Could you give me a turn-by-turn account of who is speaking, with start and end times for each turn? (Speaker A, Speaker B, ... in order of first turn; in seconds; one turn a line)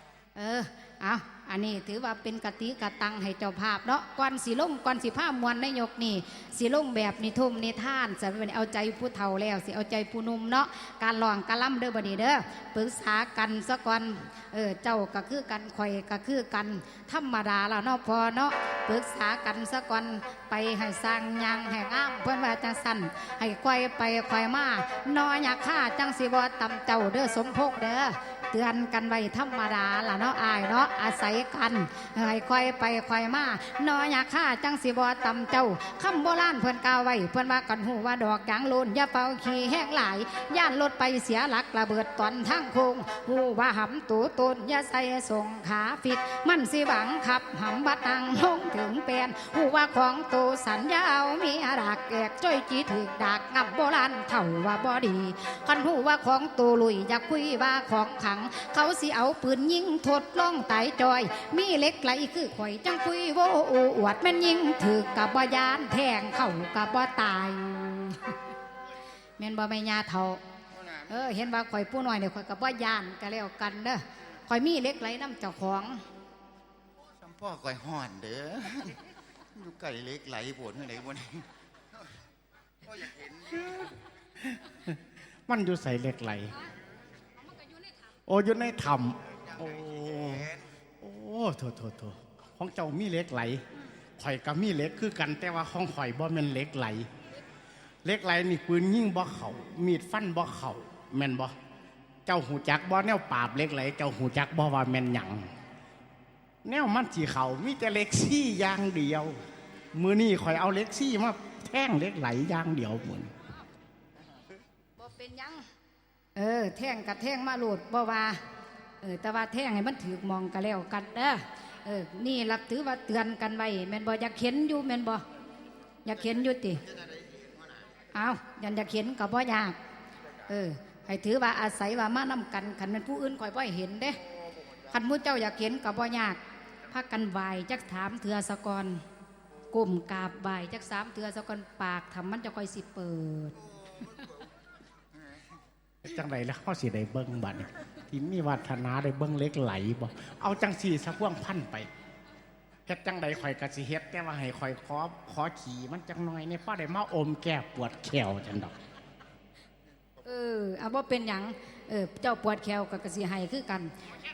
Speaker A: 0.4-68.4
Speaker A: 69.4-70.4
Speaker A: 71.1-76.0
Speaker B: 77.2-79.0
Speaker B: 79.5-81.5
Speaker B: 82.8-83.8
Speaker C: 84.4-86.6
Speaker C: 88.3-93.6
Speaker C: 94.2-97.1
Speaker C: 98.0-101.5
Speaker C: 102.3-105.5
Speaker C: 106.7-109.4
Speaker C: 109.9-113.3
Speaker A: 115.0-115.7
Speaker A: 116.4-118.4
Speaker A: 119.0-125.2
Speaker A: 126.0-126.8
Speaker B: 127.0-127.6
Speaker A: 128.1-129.8
Speaker A: 130.5-134.2
Speaker A: 134.9-139.0
Speaker A: 139.7-143.6
Speaker C: 146.0-151.9
Speaker C: 152.9-158.8
Speaker A: 160.2-163.9